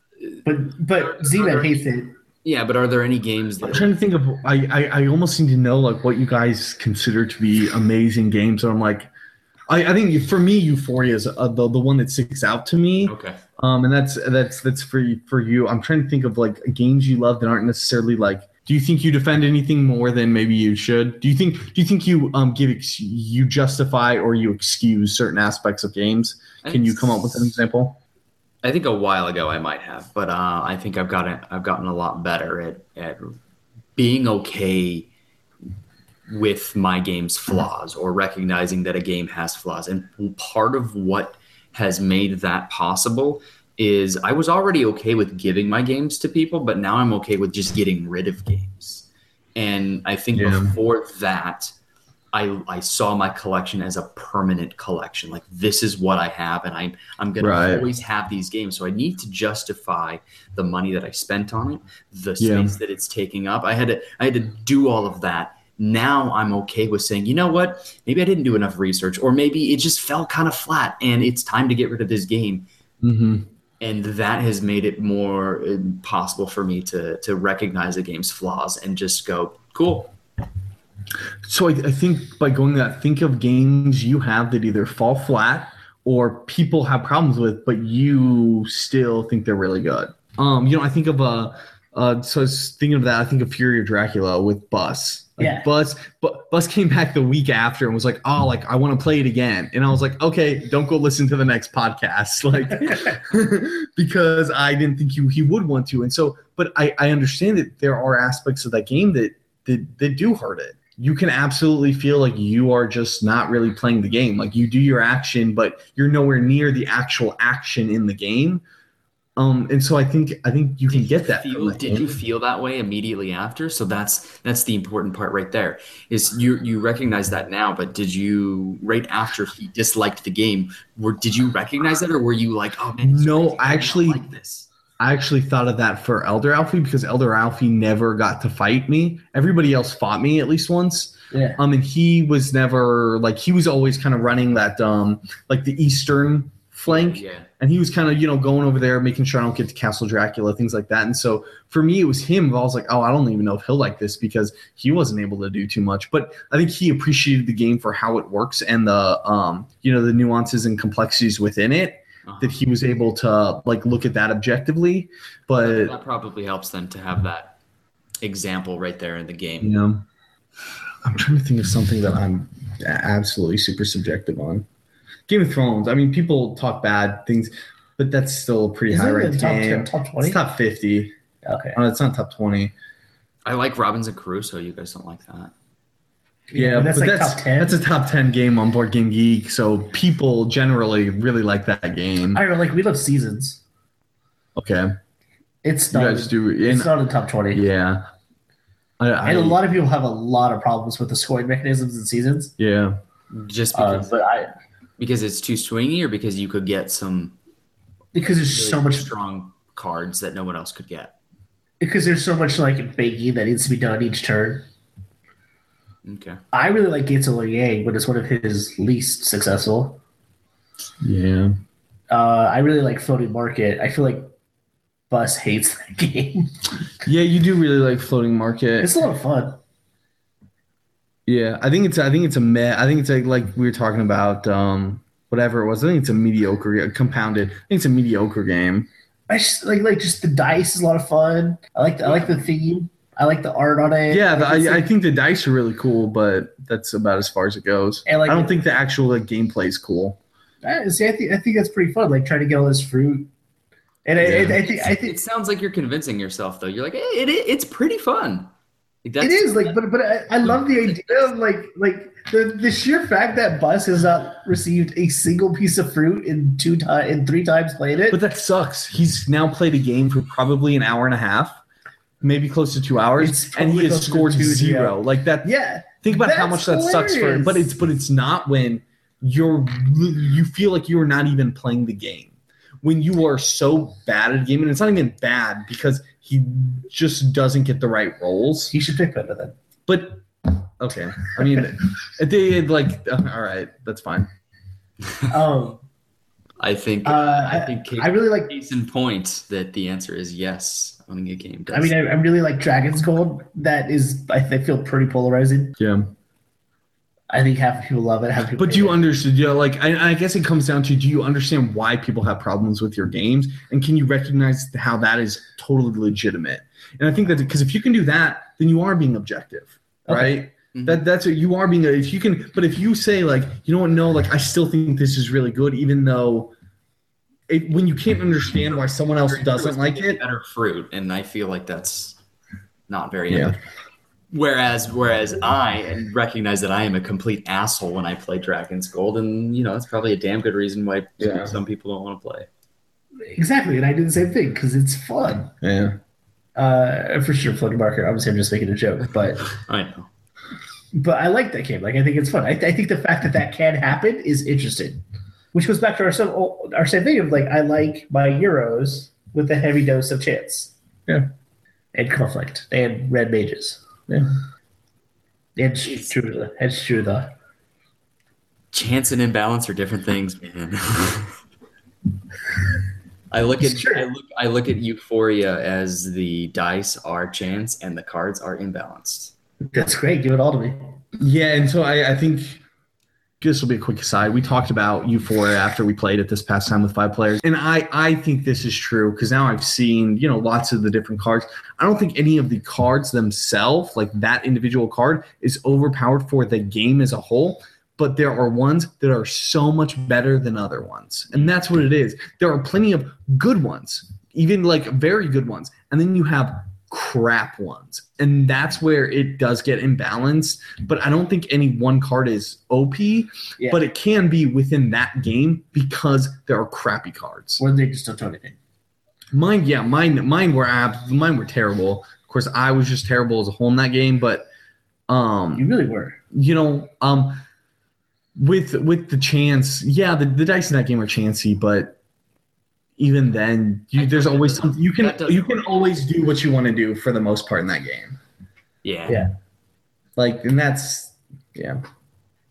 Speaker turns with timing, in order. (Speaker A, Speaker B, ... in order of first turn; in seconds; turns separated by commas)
Speaker A: 0.2-1.9, Speaker B: 0.5-2.1, Speaker A: 2.4-3.9, Speaker C: 3.6-9.1, Speaker C: 9.7-28.0, Speaker A: 13.1-13.4, Speaker A: 26.6-27.5, Speaker A: 28.6-33.4, Speaker A: 34.0-35.1, Speaker A: 36.3-51.7, Speaker C: 50.3-50.7, Speaker A: 52.3-72.7, Speaker C: 57.4-57.9, Speaker C: 62.4-62.7, Speaker C: 73.0-73.5, Speaker A: 73.8-80.1, Speaker C: 81.5-118.6, Speaker B: 95.4-95.7, Speaker C: 119.4-122.1, Speaker A: 120.9-134.7, Speaker C: 133.0-134.2, Speaker C: 135.0-165.9, Speaker B: 141.3-141.6, Speaker A: 146.9-147.5, Speaker A: 162.2-162.6, Speaker A: 165.6-167.6, Speaker A: 168.2-169.8, Speaker C: 169.6-170.1, Speaker C: 171.0-174.7, Speaker C: 175.3-181.1, Speaker B: 178.9-180.4, Speaker B: 181.4-181.8, Speaker C: 181.7-182.7, Speaker A: 183.4-185.5, Speaker B: 186.5-187.8, Speaker C: 186.5-192.4, Speaker B: 192.3-193.6, Speaker C: 194.6-195.0, Speaker B: 195.6-197.7, Speaker C: 195.9-196.9, Speaker C: 197.5-198.1, Speaker C: 199.0-199.6, Speaker B: 199.2-202.5, Speaker C: 202.6-203.0, Speaker A: 203.3-204.2, Speaker B: 203.7-204.5, Speaker A: 205.0-207.4, Speaker B: 208.1-209.1, Speaker A: 208.5-211.2, Speaker B: 211.8-214.7, Speaker A: 216.1-216.4, Speaker B: 216.5-220.0, Speaker C: 221.0-221.6, Speaker B: 222.1-224.3, Speaker B: 225.1-226.5, Speaker C: 227.1-228.9, Speaker B: 228.8-229.6, Speaker C: 231.3-238.9, Speaker B: 239.3-244.9, Speaker C: 244.1-250.2, Speaker B: 248.1-248.6, Speaker B: 250.6-253.3, Speaker B: 254.1-255.2, Speaker C: 254.2-254.6, Speaker A: 254.3-258.5, Speaker A: 259.0-259.8, Speaker B: 259.2-268.2, Speaker A: 260.4-261.3, Speaker C: 268.1-271.6, Speaker C: 272.2-275.5, Speaker B: 273.2-277.7, Speaker C: 276.0-288.7, Speaker B: 288.7-289.6, Speaker C: 289.9-294.3, Speaker B: 295.3-295.8, Speaker A: 296.6-301.9, Speaker B: 297.1-298.5, Speaker B: 301.7-305.8, Speaker C: 305.8-306.1, Speaker B: 307.3-309.0, Speaker C: 308.6-326.5, Speaker B: 320.1-320.4, Speaker A: 320.7-321.0, Speaker C: 327.5-330.2, Speaker A: 329.3-332.2, Speaker A: 332.9-333.6, Speaker C: 333.3-333.6, Speaker A: 334.3-342.5, Speaker C: 341.2-341.5, Speaker B: 343.2-345.5, Speaker C: 345.6-346.0, Speaker B: 346.6-349.5, Speaker A: 349.4-350.1, Speaker B: 350.9-355.0, Speaker B: 355.5-360.7, Speaker B: 361.9-363.8, Speaker B: 365.6-367.3, Speaker A: 368.7-371.4, Speaker A: 373.3-379.3, Speaker B: 373.6-374.1, Speaker B: 379.7-381.0, Speaker C: 381.2-382.6, Speaker C: 383.4-417.6, Speaker B: 413.6-413.8, Speaker B: 417.6-418.6, Speaker C: 419.3-424.5, Speaker C: 425.1-425.7, Speaker B: 425.6-426.2, Speaker C: 426.3-427.4, Speaker C: 428.4-432.0, Speaker C: 433.0-438.2, Speaker A: 433.9-435.7, Speaker A: 438.8-439.2, Speaker C: 440.2-441.8